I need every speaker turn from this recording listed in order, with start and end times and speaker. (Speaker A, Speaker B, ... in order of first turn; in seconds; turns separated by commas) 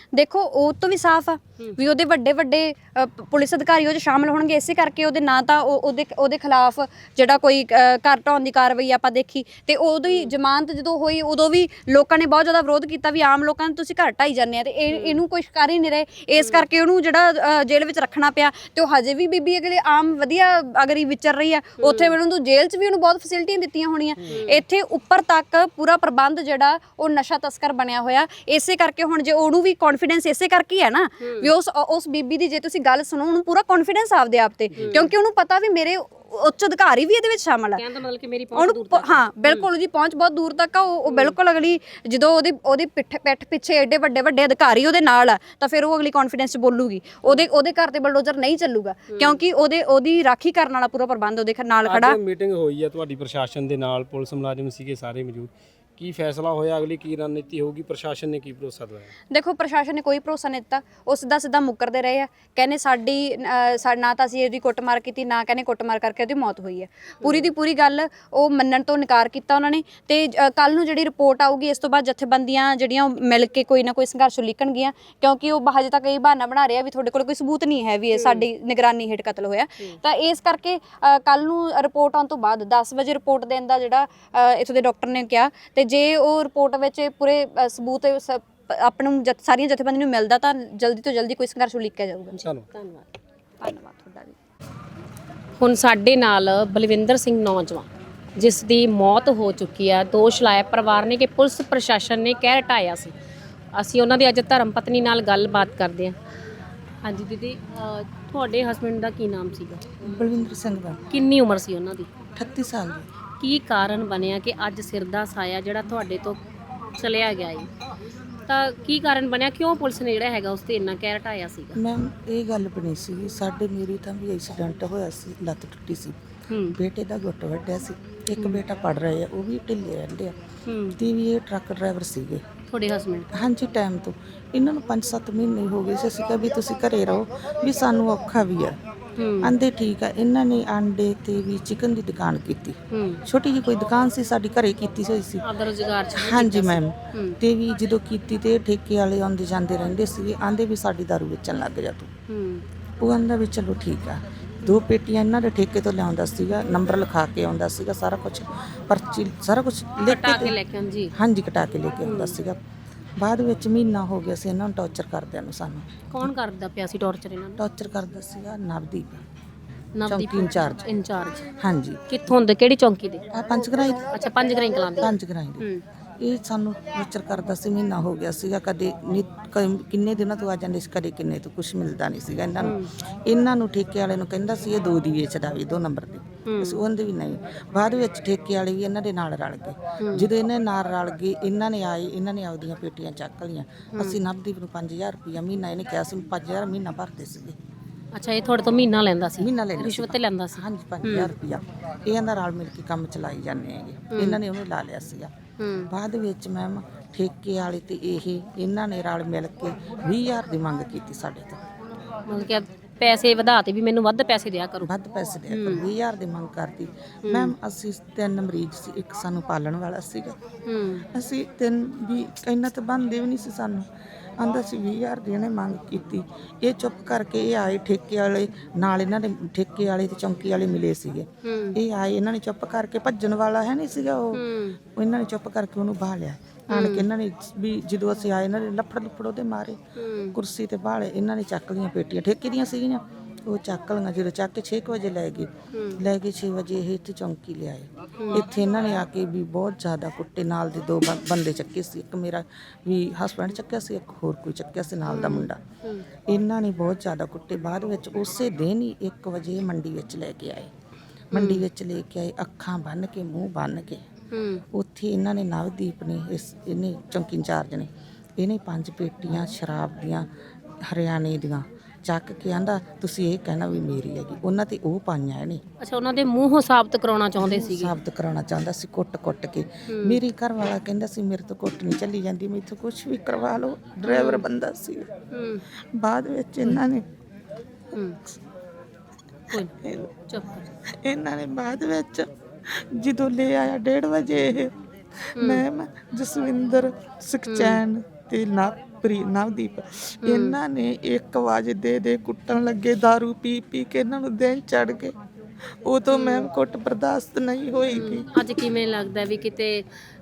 Speaker A: 0.1-37.8, Speaker B: 10.1-10.3, Speaker B: 14.9-15.2, Speaker B: 16.4-16.6, Speaker B: 21.8-22.1, Speaker B: 24.2-24.6, Speaker B: 31.2-31.5, Speaker B: 34.8-35.1, Speaker B: 37.8-39.7, Speaker A: 38.5-52.2, Speaker B: 41.1-41.4, Speaker B: 49.1-49.4, Speaker C: 51.9-59.1, Speaker A: 59.3-92.5, Speaker B: 78.1-78.5, Speaker C: 92.3-92.7, Speaker B: 92.7-93.1, Speaker A: 93.6-94.3, Speaker B: 95.6-103.1, Speaker B: 103.8-106.2, Speaker B: 107.0-110.1, Speaker D: 110.0-111.0, Speaker B: 111.1-112.1, Speaker D: 112.3-113.1, Speaker B: 113.4-116.4, Speaker B: 117.0-117.7, Speaker B: 118.5-121.8, Speaker D: 121.8-126.2, Speaker B: 126.5-126.8, Speaker D: 126.7-130.3, Speaker B: 128.4-128.6, Speaker B: 130.7-131.0, Speaker D: 131.0-132.4, Speaker B: 132.7-133.3, Speaker D: 133.3-138.8, Speaker B: 139.2-139.5, Speaker D: 139.4-145.4, Speaker B: 142.9-143.2, Speaker B: 145.4-147.4, Speaker D: 146.1-152.1, Speaker B: 152.3-152.6, Speaker D: 153.0-160.6, Speaker B: 160.0-161.1, Speaker D: 161.1-162.6, Speaker B: 162.0-162.4, Speaker D: 163.2-166.3, Speaker B: 166.1-167.6, Speaker D: 167.6-169.2, Speaker B: 170.0-171.5, Speaker D: 170.1-170.8, Speaker D: 171.6-172.0, Speaker B: 172.1-173.2, Speaker D: 173.3-174.1, Speaker B: 174.1-175.8, Speaker D: 175.0-175.6, Speaker D: 176.2-197.6, Speaker B: 182.6-182.9, Speaker B: 186.5-186.8, Speaker B: 190.0-190.3, Speaker B: 198.1-201.3, Speaker D: 199.4-205.3, Speaker B: 204.1-204.4, Speaker B: 205.6-205.9, Speaker D: 205.9-211.6, Speaker B: 212.3-214.9, Speaker D: 214.8-220.4, Speaker B: 215.5-215.9, Speaker B: 217.2-217.5, Speaker B: 220.7-221.1, Speaker D: 221.1-223.9, Speaker D: 224.4-234.4, Speaker B: 231.4-231.8, Speaker B: 234.3-234.8, Speaker D: 235.0-239.8, Speaker B: 236.7-237.1, Speaker B: 240.0-240.4, Speaker D: 240.3-255.6, Speaker B: 245.7-246.0, Speaker B: 248.2-248.5, Speaker B: 255.1-256.1, Speaker D: 256.3-260.7, Speaker D: 261.3-264.0, Speaker B: 261.3-261.7, Speaker B: 264.3-264.6, Speaker D: 264.7-270.3, Speaker D: 270.8-275.6, Speaker B: 275.8-277.9, Speaker D: 277.4-285.1, Speaker B: 279.9-280.2, Speaker B: 284.0-284.4, Speaker B: 285.3-285.6, Speaker D: 286.0-287.0, Speaker E: 289.9-290.1, Speaker B: 290.3-290.7, Speaker E: 291.0-294.7, Speaker B: 295.4-295.6, Speaker E: 295.4-305.1, Speaker B: 297.5-297.8, Speaker B: 300.2-300.6, Speaker E: 305.9-308.3, Speaker B: 306.1-306.5, Speaker B: 307.9-309.9